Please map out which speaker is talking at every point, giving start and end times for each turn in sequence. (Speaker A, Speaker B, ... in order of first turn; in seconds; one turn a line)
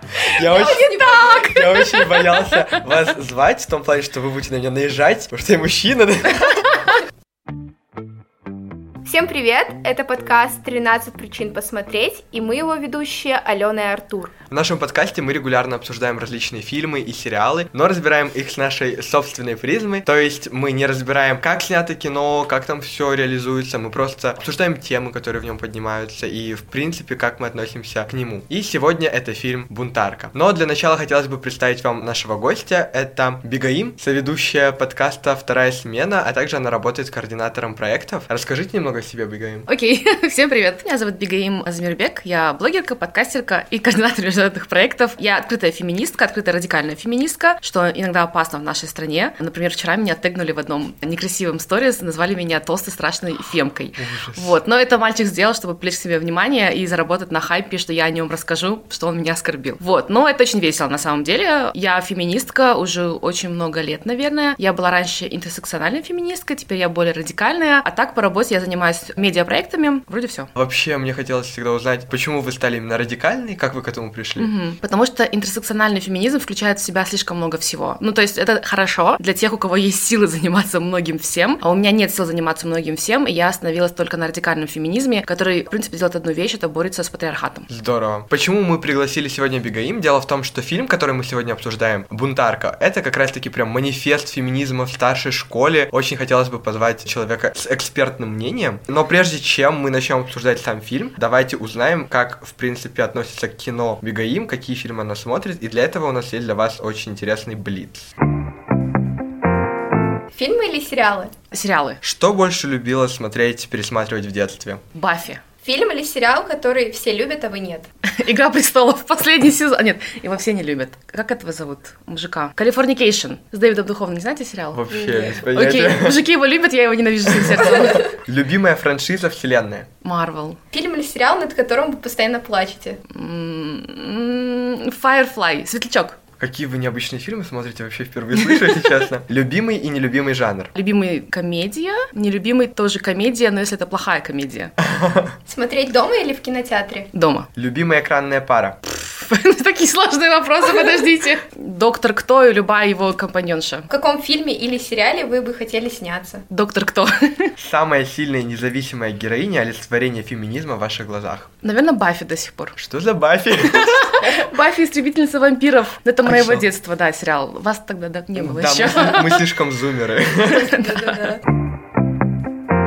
Speaker A: 0.3-6.9
Speaker B: 0.4-1.8
Speaker C: 1.2-1.6
Speaker B: 9.0-14.3
Speaker A: 14.5-39.7
Speaker C: 39.7-70.5
Speaker A: 54.0-54.5
Speaker A: 70.5-74.5
Speaker C: 74.4-87.7
Speaker A: 87.7-108.1
Speaker B: 110.3-111.3
Speaker C: 111.5-112.0
Speaker A: 112.0-114.8
Speaker C: 114.9-115.4
Speaker B: 115.6-117.9
Speaker C: 118.1-124.8
Speaker A: 124.7-126.2
Speaker B: 124.9-125.4
Speaker C: 125.4-128.1
Speaker A: 127.3-129.9
Speaker C: 130.0-130.6
Speaker B: 130.7-133.0
Speaker C: 133.1-136.2
Speaker A: 136.4-140.7
Speaker C: 138.3-139.0
Speaker C: 140.8-144.7
Speaker A: 144.8-145.3
Speaker B: 145.5-147.1
Speaker C: 147.1-147.5
Speaker A: 147.6-148.8
Speaker C: 148.8-153.9
Speaker B: 153.9-156.4
Speaker C: 156.5-157.5
Speaker A: 157.6-161.5
Speaker C: 161.6-162.8
Speaker A: 162.8-164.1
Speaker C: 163.6-169.4
Speaker A: 166.2-166.7
Speaker A: 168.3-170.8
Speaker C: 170.5-171.2
Speaker B: 170.6-171.4